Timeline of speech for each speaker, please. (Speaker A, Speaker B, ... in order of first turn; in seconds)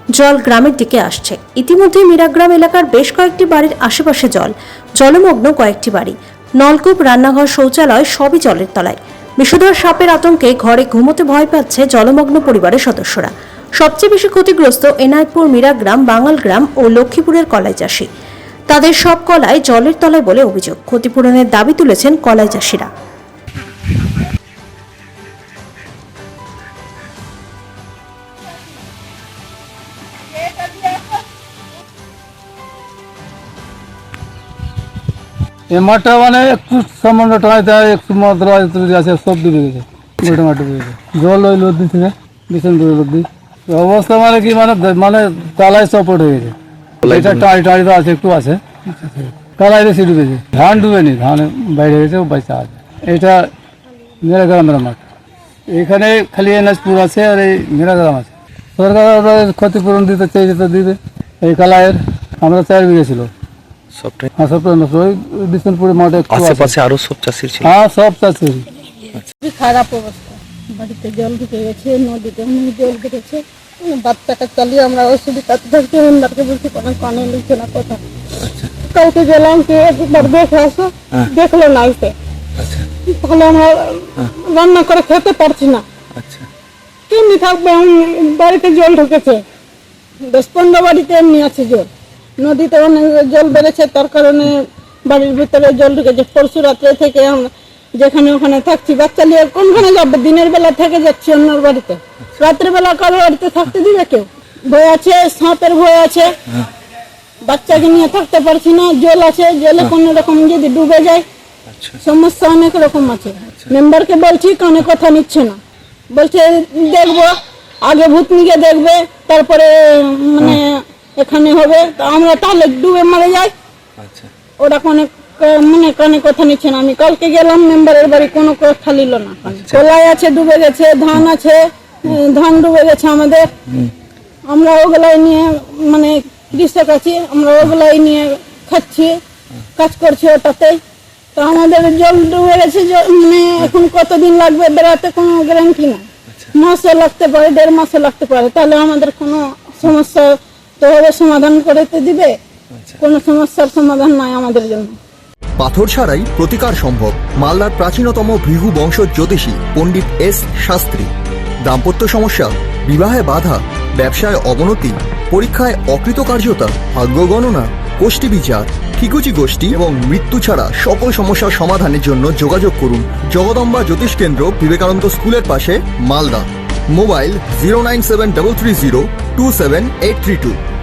Speaker A: 0.1-18.1, 18.7-22.9
Speaker B: 35.7-53.5, 54.2-55.0, 55.7-63.3, 64.4-66.7, 67.6-68.6
Speaker C: 47.0-47.4, 63.9-64.3, 66.3-67.7, 78.4-78.7, 82.6-82.9, 86.1-86.5, 111.7-112.0, 124.0-124.3, 129.5-129.8, 152.7-153.0
Speaker D: 69.4-78.0, 78.8-82.1, 83.0-85.8, 87.1-89.4, 90.2-106.6, 107.4-111.2, 112.0-115.6, 116.1-123.5, 124.6-133.5, 134.5-139.2, 139.8-140.8, 141.3-152.3, 153.0-154.9
Speaker E: 155.6-161.1, 161.6-180.6